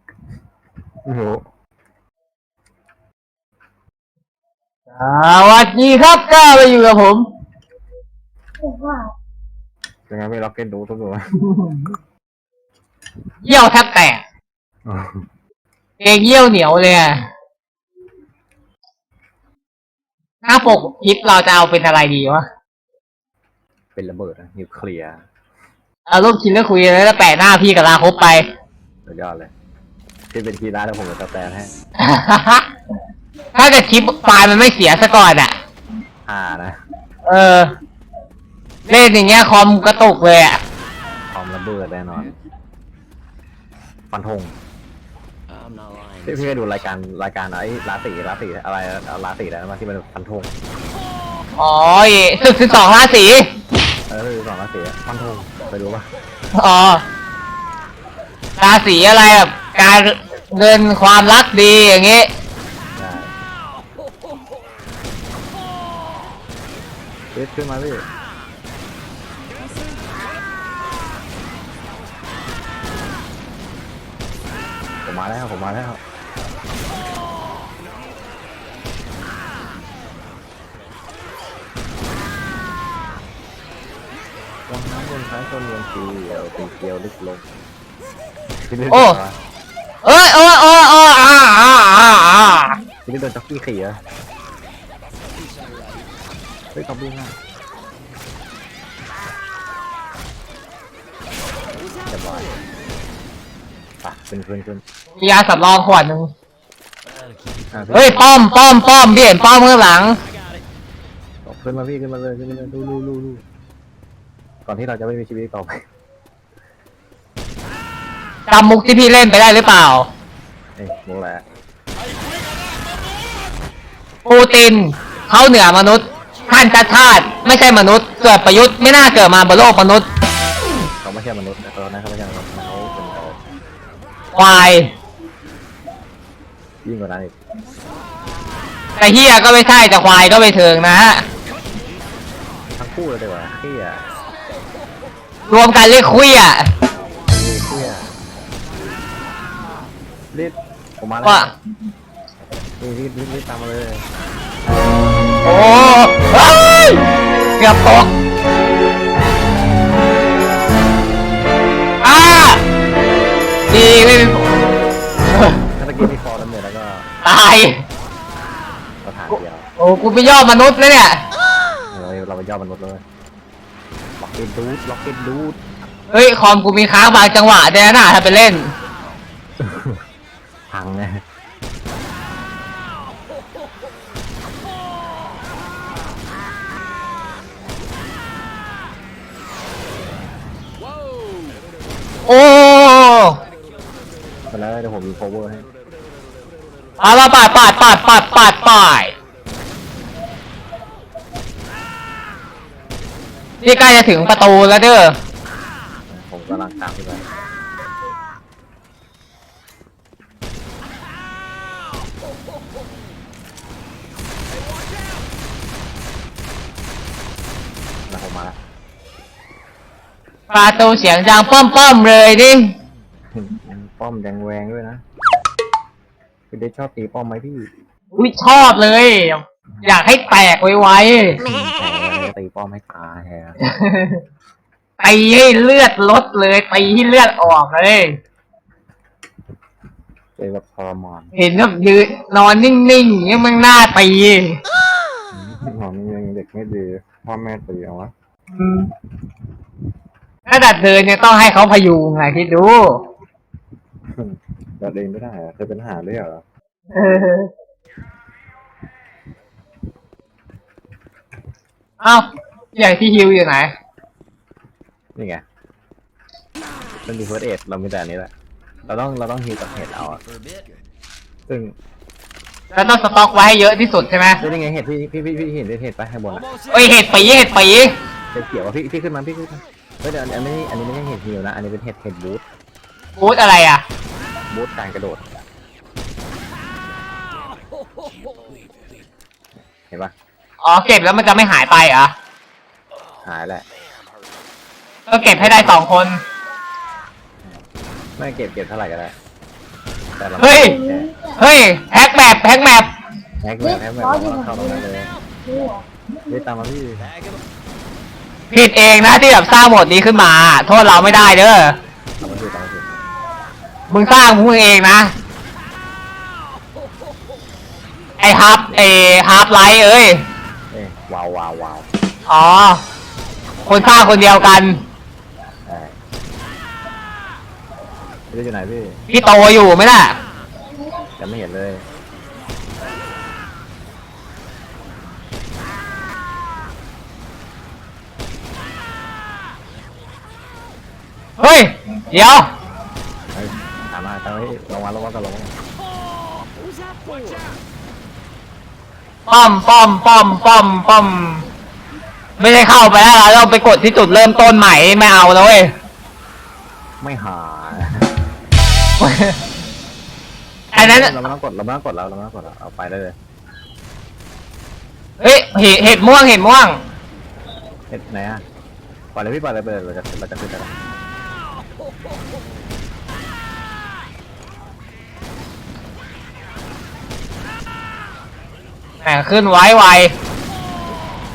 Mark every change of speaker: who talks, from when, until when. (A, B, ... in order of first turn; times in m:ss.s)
0:01.0-0:01.4 A
0:05.0-0:07.3 B
0:08.6-0:09.1 C
0:10.1-0:11.4 A
0:13.4-0:14.2 B
0:14.8-0:15.3 A
0:16.0-0:17.2 B
0:20.4-0:22.5 B
0:24.0-0:25.2 A
0:26.1-0:28.5 B
0:29.1-0:29.5 A
0:30.3-0:31.7 A
0:32.0-0:32.7 B
0:33.6-0:35.6 B
0:36.2-0:36.8 A
0:37.3-0:37.7 B
0:38.9-0:40.6 B
0:41.3-0:42.4 A
0:44.1-0:44.6 A
0:45.5-0:46.7 D
0:46.2-0:50.5 A
0:51.6-0:53.5 B
0:54.1-0:56.1 A
0:56.6-0:57.0 B
0:58.6-1:02.3 B
1:03.0-1:03.3 A
1:07.3-1:08.0 A
1:15.0-1:16.0 A
1:24.7-1:27.4 A
1:28.6-1:29.4 A
1:28.9-1:29.2 B
1:30.0-1:32.8 B
1:33.1-1:34.0 A
1:35.2-1:36.1 D
1:36.7-1:37.4 A
1:41.7-1:42.7 D
1:42.1-1:42.5 A
1:44.0-1:44.8 A
1:45.2-1:46.3 B
1:47.0-1:48.1 D
1:47.7-1:48.3 A
1:47.9-1:50.2 B
1:50.2-1:50.6 D
1:51.4-1:53.4 A
1:54.6-1:55.8 A
1:58.5-2:00.1 B
2:00.8-2:01.4 A
2:04.2-2:10.1 B
2:11.0-2:13.4 A
2:14.3-2:14.9 B
2:16.8-2:17.3 A
2:19.0-2:21.2 B
2:22.8-2:24.0 A
2:25.5-2:26.7 B
2:27.2-2:28.1 A
2:30.3-2:31.5 A
2:31.2-2:31.5 B
2:32.8-2:34.0 A
2:35.4-2:38.1 B
2:42.0-2:42.6 B
2:43.7-2:44.5 B
2:45.3-2:45.6 B
2:45.8-2:47.1 A
2:47.2-2:47.8 B
2:49.0-2:49.7 A
2:49.3-2:51.2 B
2:51.9-2:53.0 A
2:54.2-2:55.6 A
2:56.1-2:58.7 B
2:59.6-3:00.0 A
3:00.7-3:01.2 A
3:10.9-3:11.6 D
3:12.3-3:13.4 B
3:14.5-3:15.7 A
3:17.0-3:19.1 B
3:23.6-3:25.2 B
3:26.1-3:27.2 A
3:38.1-3:38.6 A
3:40.5-3:42.7 B
3:43.3-3:45.0 A
3:46.5-3:47.7 A
3:48.1-3:51.4 B
3:51.4-3:53.6 A
3:53.6-3:54.2 B
3:55.0-3:58.2 B
4:00.4-4:01.3 A
4:01.4-4:04.6 B
4:05.3-4:08.1 A
4:08.5-4:08.9 B
4:10.5-4:13.0 B
4:14.1-4:16.4 A
4:16.9-4:17.5 B
4:22.0-4:23.7 B
4:25.2-4:25.4 A
4:27.1-4:28.3 A
4:28.9-4:30.2 A
4:30.0-4:30.9 D
4:31.5-4:31.8 A
4:32.7-4:34.4 B
4:34.4-4:36.4 A
4:36.4-4:36.7 D
4:36.7-4:37.9 B
4:38.3-4:42.4 A
4:43.2-4:43.8 B
4:44.5-4:45.2 A
4:47.3-4:49.0 D
4:49.8-4:50.1 A
4:50.6-4:52.1 B
4:53.2-4:53.6 A
4:55.1-4:56.2 B
4:55.4-4:55.8 A
4:58.2-4:59.2 A
5:00.2-5:01.1 A
5:00.4-5:00.8 B
5:00.6-5:01.4 C
5:01.4-5:02.9 B
5:03.4-5:05.1 A
5:03.6-5:04.8 C
5:05.5-5:06.4 C
5:06.3-5:07.1 A
5:07.0-5:07.4 D
5:08.5-5:11.8 B
5:12.2-5:13.0 A
5:13.9-5:15.1 B
5:18.2-5:20.2 B
5:20.7-5:21.9 A
5:22.3-5:22.8 B
5:23.6-5:24.8 B
5:25.7-5:26.0 A
5:28.3-5:29.0 A
5:29.1-5:30.2 B
5:31.2-5:31.9 A
5:41.4-5:42.5 B
5:43.3-5:45.5 A
5:46.3-5:47.6 D
5:49.3-5:51.4 B
5:52.4-5:55.7 B
5:57.0-5:58.1 A
5:59.0-5:59.4 B
6:00.7-6:01.1 B
6:00.8-6:03.2 A
6:05.2-6:06.8 B
6:07.9-6:08.4 A
6:09.1-6:10.7 A
6:19.0-6:20.1 B